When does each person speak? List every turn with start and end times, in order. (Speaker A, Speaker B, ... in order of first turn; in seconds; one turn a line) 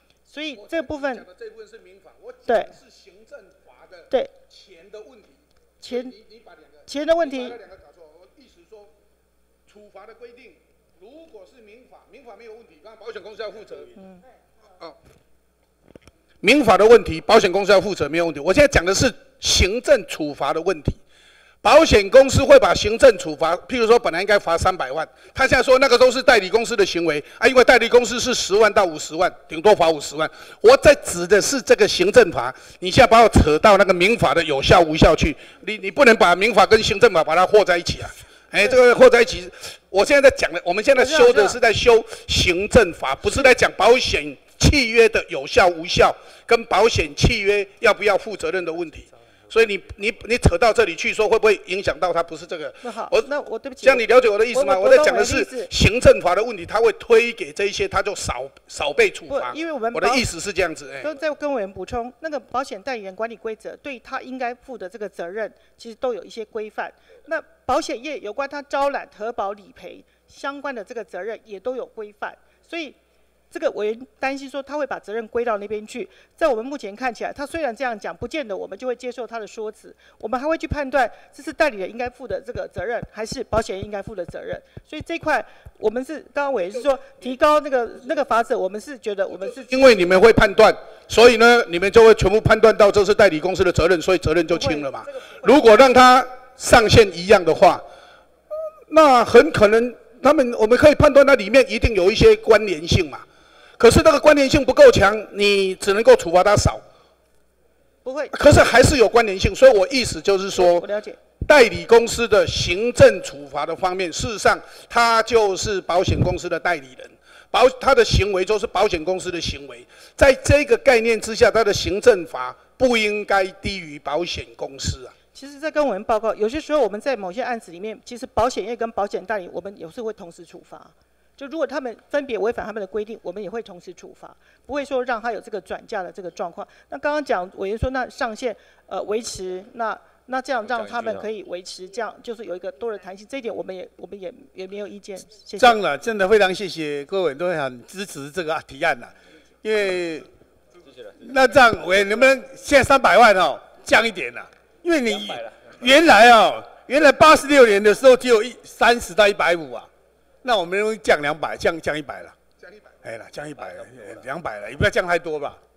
Speaker A: 0.3-1.3
Speaker B: 1.3-4.0
Speaker A: 2.5-2.8
Speaker B: 4.5-5.2
Speaker A: 5.8-6.2
Speaker A: 6.9-7.6
Speaker B: 7.7-8.9
Speaker B: 9.7-14.0
Speaker B: 16.4-21.0
Speaker B: 21.6-53.3
Speaker A: 41.0-41.6
Speaker A: 52.8-55.7
Speaker B: 53.8-61.1
Speaker A: 59.3-60.2
Speaker A: 61.0-73.0
Speaker A: 73.5-90.0
Speaker B: 89.7-97.8
Speaker A: 94.5-94.9
Speaker B: 98.9-103.2
Speaker B: 103.8-106.8
Speaker A: 108.0-108.3
Speaker B: 108.3-125.1
Speaker A: 110.5-111.2
Speaker A: 125.3-145.8
Speaker C: 145.6-150.3
Speaker C: 151.2-159.9
Speaker C: 160.4-162.3
Speaker C: 163.0-165.6